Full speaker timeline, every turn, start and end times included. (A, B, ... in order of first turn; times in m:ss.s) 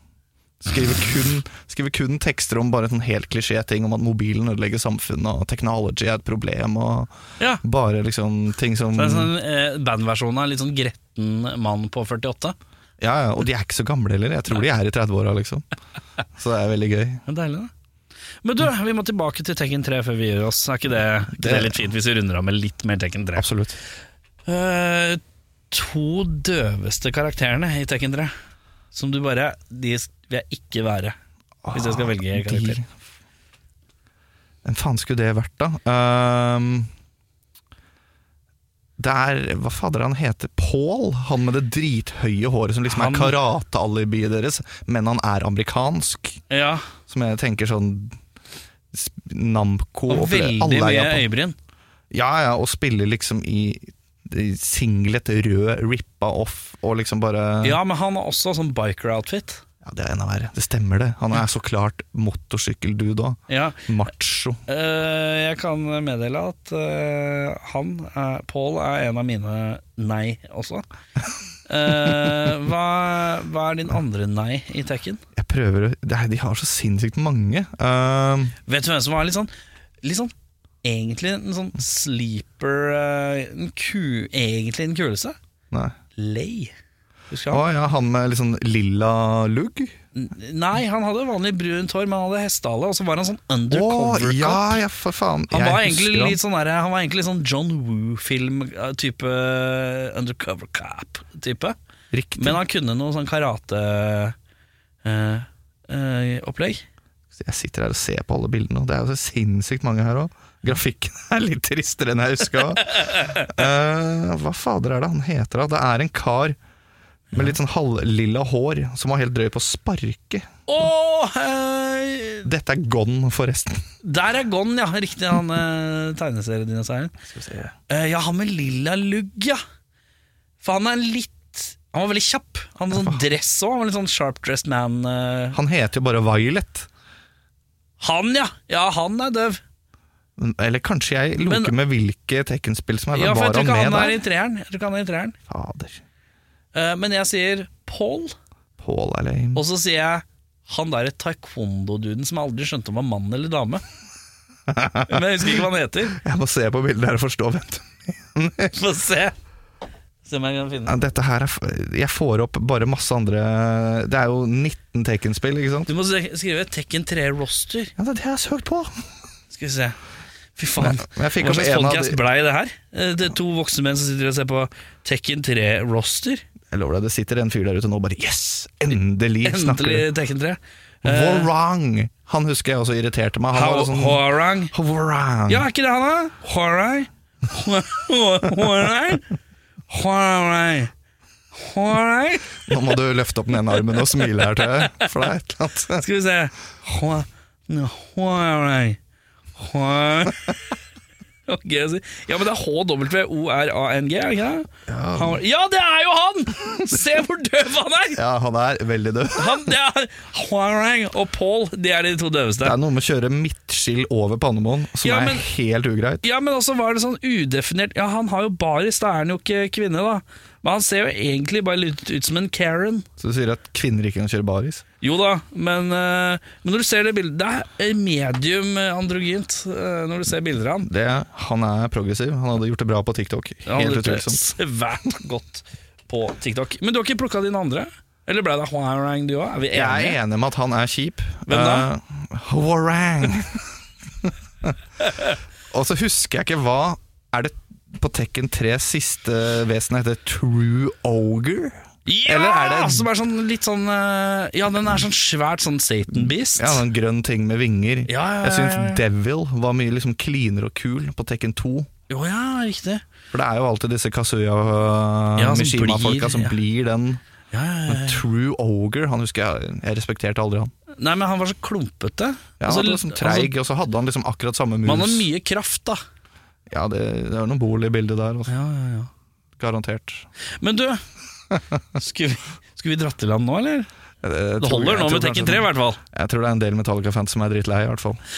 0:00.6-0:07.1 A
0:07.6-0:09.3 A
0:09.0-0:12.6 B
0:13.0-0:15.7 A
0:16.3-0:17.2 A
0:17.3-0:17.7 B
0:18.4-0:23.5 B
0:21.3-0:21.8 A
0:23.4-0:23.8 A
0:24.4-0:28.3 B
0:28.9-0:31.1 B
0:31.6-0:32.9 A
0:31.7-0:32.8 B
0:34.6-0:36.9 A
0:39.0-0:46.4 A
0:42.9-0:43.3 B
0:46.5-0:46.9 B
0:47.1-0:48.2 A
0:48.9-0:51.2 A
0:50.1-0:51.6 B
0:52.1-0:57.8 A
0:57.6-0:59.6 B
0:59.8-1:04.6 A
1:03.5-1:03.9 B
1:04.7-1:10.8 B
1:11.7-1:15.2 B
1:15.3-1:18.6 A
1:18.6-1:19.5 B
1:20.0-1:25.4 B
1:25.7-1:26.0 A
1:26.1-1:26.7 B
1:27.3-1:27.6 B
1:27.5-1:30.0 A
1:30.1-1:34.8 B
1:33.7-1:36.4 A
1:35.5-1:41.7 B
1:42.1-1:42.6 A
1:42.4-1:44.4 B
1:45.0-1:46.8 B
1:47.3-1:56.6 A
1:53.1-1:53.5 B
1:57.3-2:00.5 A
2:00.7-2:02.5 B
2:02.4-2:03.8 A
2:04.0-2:07.2 B
2:07.3-2:07.7 A
2:07.7-2:09.6 B
2:10.6-2:15.6 B
2:12.9-2:13.2 A
2:15.5-2:16.9 A
2:18.0-2:19.6 B
2:20.4-2:24.2 A
2:21.4-2:21.7 B
2:23.1-2:25.4 B
2:25.5-2:26.0 A
2:26.7-2:28.3 B
2:28.8-2:29.6 A
2:29.5-2:33.8 B
2:34.7-2:35.6 A
2:35.0-2:36.2 B
2:36.1-2:38.7 A
2:38.7-2:39.3 B
2:40.2-2:41.0 B
2:40.9-2:45.9 A
2:45.8-2:47.9 B
2:48.0-2:49.0 A
2:49.5-2:50.0 B
2:50.6-2:56.4 B
2:50.8-2:52.2 A
2:56.7-3:00.1 A
2:59.4-3:01.5 B
3:01.0-3:05.7 A
3:03.5-3:04.7 B
3:05.5-3:09.3 B
3:09.9-3:10.9 B
3:11.5-3:12.9 B
3:12.7-3:16.0 A
3:14.6-3:15.1 B
3:16.0-3:19.0 B
3:19.6-3:20.6 B
3:21.5-3:28.2 B
3:24.9-3:25.4 A
3:28.1-3:29.7 A
3:29.3-3:32.8 B
3:32.6-3:36.2 A
3:35.0-3:35.5 B
3:36.2-3:43.0 B
3:43.2-3:44.8 A
3:45.0-3:50.9 B
3:50.8-3:54.5 A
3:53.6-4:00.2 B
3:59.7-4:04.7 A
4:01.5-4:01.9 B
4:05.0-4:05.3 B
4:05.7-4:13.1 A
4:12.0-4:16.8 B
4:16.2-4:21.9 A
4:18.1-4:19.0 B
4:22.1-4:23.0 B
4:23.3-4:27.2 A
4:25.4-4:26.5 B
4:27.5-4:28.2 B
4:27.9-4:30.7 A
4:31.0-4:33.5 B
4:32.6-4:35.3 A
4:34.8-4:36.0 B
4:36.7-4:38.5 A
4:38.5-4:39.1 B
4:39.6-4:40.3 A
4:40.6-4:41.0 B
4:41.9-4:43.9 B
4:44.2-4:48.2 A
4:44.6-4:46.0 B